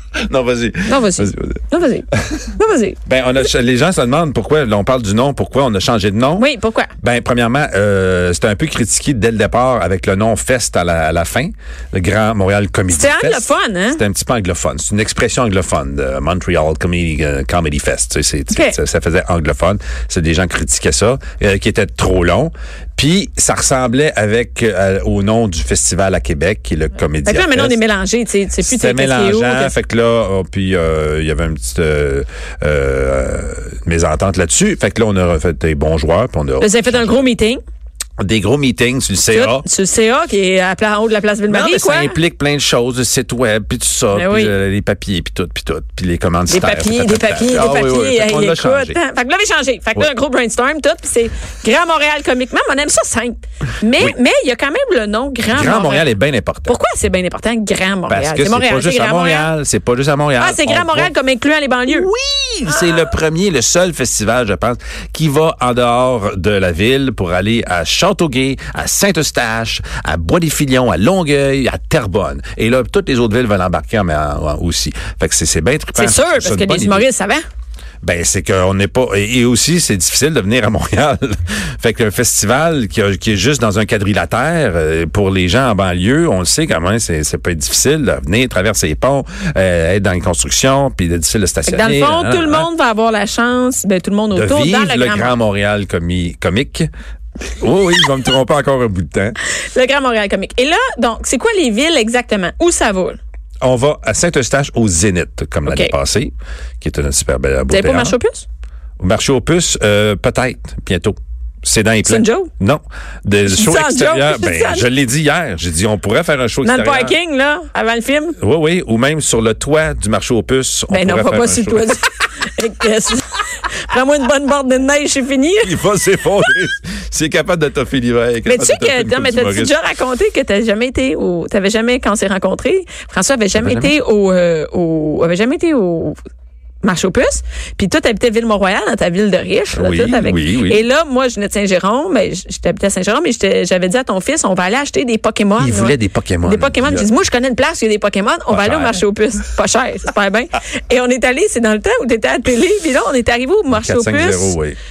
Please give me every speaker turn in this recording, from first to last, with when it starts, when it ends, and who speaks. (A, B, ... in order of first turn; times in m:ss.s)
0:00.2-0:02.4 A
0:00.9-0:03.0 B
0:03.1-0:06.5 A
0:06.4-0:06.9 B
0:07.0-0:27.8 A
0:12.9-0:14.0 B
0:18.5-0:18.8 B
0:27.2-0:29.8 B
0:28.6-0:37.3 A
0:36.6-0:37.6 B
0:38.2-0:39.6 A
0:39.3-0:42.2 B
0:41.5-0:49.0 A
0:44.1-0:44.5 B
0:46.5-0:56.2 B
0:55.5-0:56.8 A
0:56.7-0:59.5 B
0:58.1-1:01.1 A
1:00.4-1:02.1 B
1:01.9-1:17.1 A
1:02.7-1:03.1 B
1:16.0-1:17.4 B
1:18.0-1:32.7 A
1:31.7-1:35.4 B
1:34.3-1:36.9 A
1:37.6-1:39.4 A
1:39.7-1:43.2 B
1:43.6-1:48.2 A
1:45.7-1:45.9 B
1:47.7-1:48.5 B
1:49.0-1:57.2 A
1:52.0-1:52.5 B
1:53.4-1:54.9 B
1:56.6-1:58.4 B
1:58.4-2:02.0 A
2:00.9-2:05.7 B
2:05.6-2:09.8 A
2:08.5-2:16.2 B
2:13.6-2:14.0 A
2:16.8-2:34.6 B
2:19.7-2:20.8 A
2:25.6-2:27.1 A
2:28.5-2:29.0 A
2:33.7-2:34.8 A